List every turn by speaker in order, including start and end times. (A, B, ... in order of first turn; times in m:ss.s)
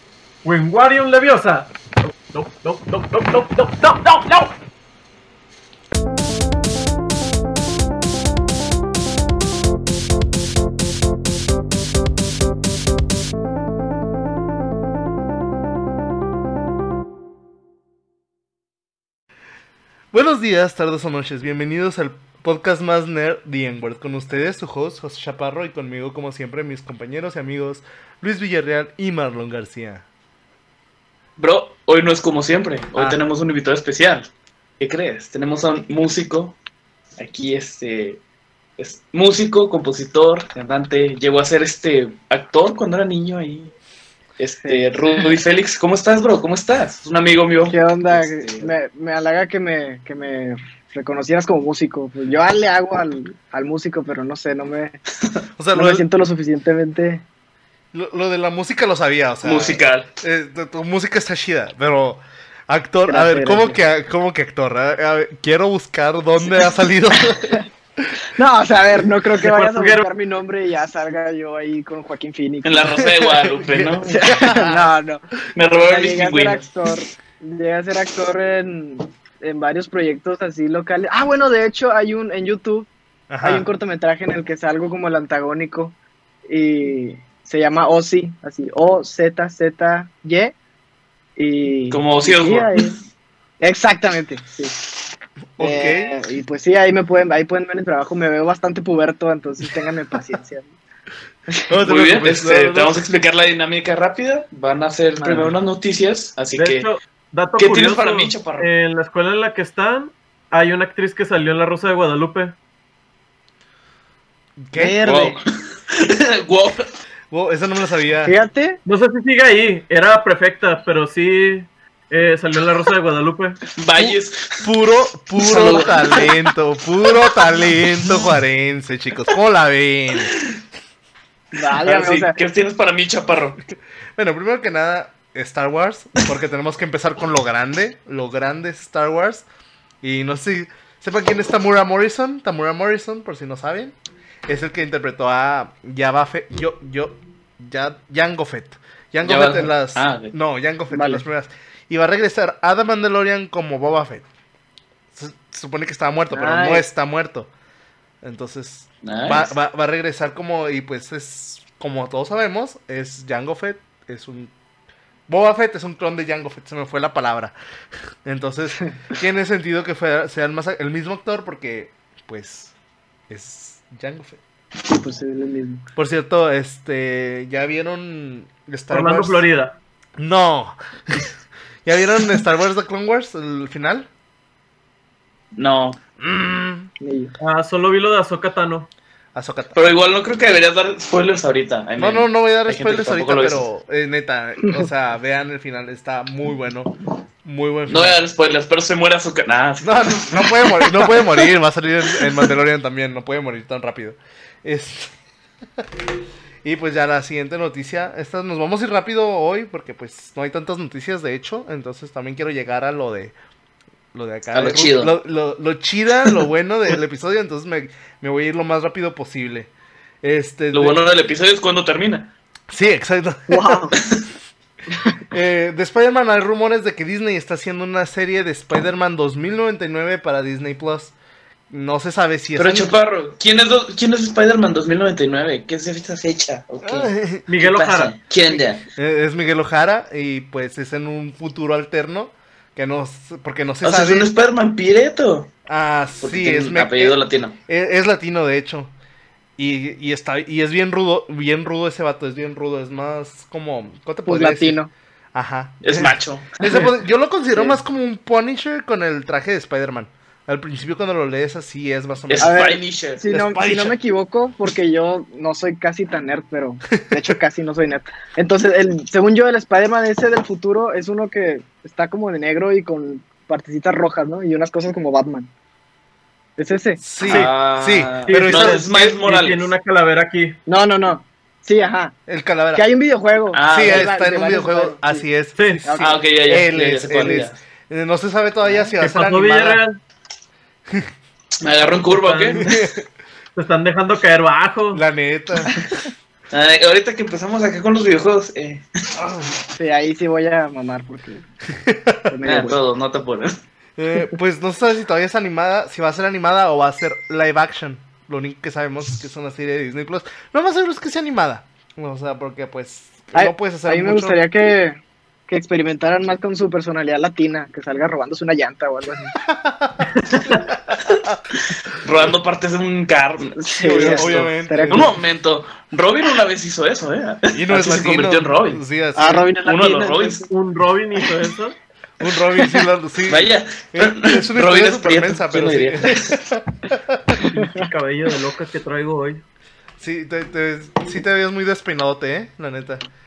0:00.4-0:04.5 A
0:20.1-0:30.0 B
0:31.4-0:34.3 C
0:33.0-0:33.2 B
0:34.8-0:36.5 C
0:37.2-0:38.2 C
0:38.8-0:43.7 C
0:44.4-0:48.7 C
0:44.6-0:45.3 D
0:47.7-0:55.0 D
0:55.6-0:56.0 B
0:55.7-0:57.2 D
0:57.9-1:08.1 B
0:59.4-1:00.1 C
1:03.1-1:03.8 D
1:07.3-1:07.6 D
1:08.3-1:13.0 D
1:09.4-1:10.0 A
1:12.6-1:14.3 C
1:13.1-1:14.9 B
1:14.1-1:22.9 D
1:15.5-1:16.6 C
1:23.3-1:23.6 B
1:23.4-1:25.9 D
1:26.5-1:30.5 D
1:31.4-1:33.0 D
1:31.9-1:32.9 C
1:33.6-1:34.8 D
1:35.6-1:36.1 B
1:35.6-1:40.7 D
1:41.7-1:42.9 B
1:41.8-1:46.8 C
1:45.2-1:45.5 D
1:46.6-1:52.5 A
1:47.6-1:48.7 C
1:54.6-1:55.0 B
1:54.7-1:55.4 D
1:55.0-1:56.9 C
1:57.3-1:58.4 B
1:58.2-1:58.8 D
1:58.8-2:03.6 A
2:03.8-2:04.6 C
2:04.6-2:10.3 B
2:05.4-2:06.4 C
2:11.5-2:12.4 D
2:11.6-2:13.6 C
2:14.2-2:19.4 B
2:20.0-2:23.9 B
2:24.5-2:34.2 B
2:29.2-2:30.3 C
2:30.9-2:31.2 D
2:35.1-2:37.5 B
2:36.3-2:36.8 D
2:38.2-2:44.5 B
2:39.0-2:39.5 C
2:45.3-2:47.5 B
2:48.2-2:52.7 B
2:53.3-2:54.4 B
2:54.9-2:55.8 D
2:56.0-2:59.4 B
2:58.9-2:59.7 A
3:00.2-3:01.3 B
3:01.8-3:04.1 B
3:05.5-3:06.0 C
3:06.2-3:06.9 B
3:07.0-3:07.3 D
3:07.4-3:08.9 A
3:09.3-3:09.8 B
3:09.7-3:13.6 C
3:12.0-3:16.9 B
3:17.4-3:18.2 B
3:17.9-3:21.0 C
3:19.8-3:25.1 B
3:26.6-3:33.3 B
3:34.1-3:39.7 B
3:34.5-3:35.1 C
3:40.2-3:41.0 B
3:40.7-3:42.3 C
3:42.7-3:43.9 B
3:43.5-3:44.0 D
3:45.3-3:51.1 B
3:51.7-3:52.9 B
3:52.6-3:58.8 C
3:56.8-3:57.5 B
3:57.5-3:58.1 A
3:58.9-4:04.3 B
4:03.8-4:05.5 C
4:05.7-4:08.9 B
4:06.2-4:07.6 C
4:09.6-4:14.8 B
4:14.2-4:14.9 D
4:15.3-4:22.6 B
4:15.8-4:16.6 C
4:17.5-4:17.8 D
4:22.3-4:23.2 C
4:22.4-4:35.5 D
4:23.3-4:24.0 B
4:36.6-4:37.0 D
4:37.0-4:39.2 B
4:37.2-4:39.7 C
4:38.3-4:40.6 A
4:40.7-4:42.2 D
4:42.3-4:42.8 B
4:42.7-4:45.2 D
4:43.5-4:44.1 C
4:43.7-4:49.8 B
4:45.6-4:45.8 A
4:45.8-4:46.2 D
4:46.0-4:47.6 C
4:49.0-4:50.0 A
4:51.6-4:52.8 C
4:52.1-4:52.7 A
4:52.6-4:53.0 B
4:53.6-4:55.0 A
4:54.9-4:55.8 B
4:56.5-4:58.8 C
4:59.2-4:59.5 B
4:59.8-5:01.4 D
5:01.8-5:02.4 B
5:02.3-5:02.8 D
5:02.4-5:03.5 C
5:04.0-5:14.4 B
5:13.3-5:19.3 D
5:19.5-5:20.1 B
5:20.2-5:20.6 A
5:20.7-5:21.4 B
5:21.0-5:28.8 C
5:23.6-5:25.2 D
5:23.8-5:25.1 B
5:27.5-5:29.5 B
5:29.2-5:30.5 D
5:29.6-5:30.5 C
5:30.5-5:31.7 A
5:32.2-5:37.4 B
5:33.3-5:36.4 C
5:37.5-5:39.4 A
5:40.0-5:43.0 B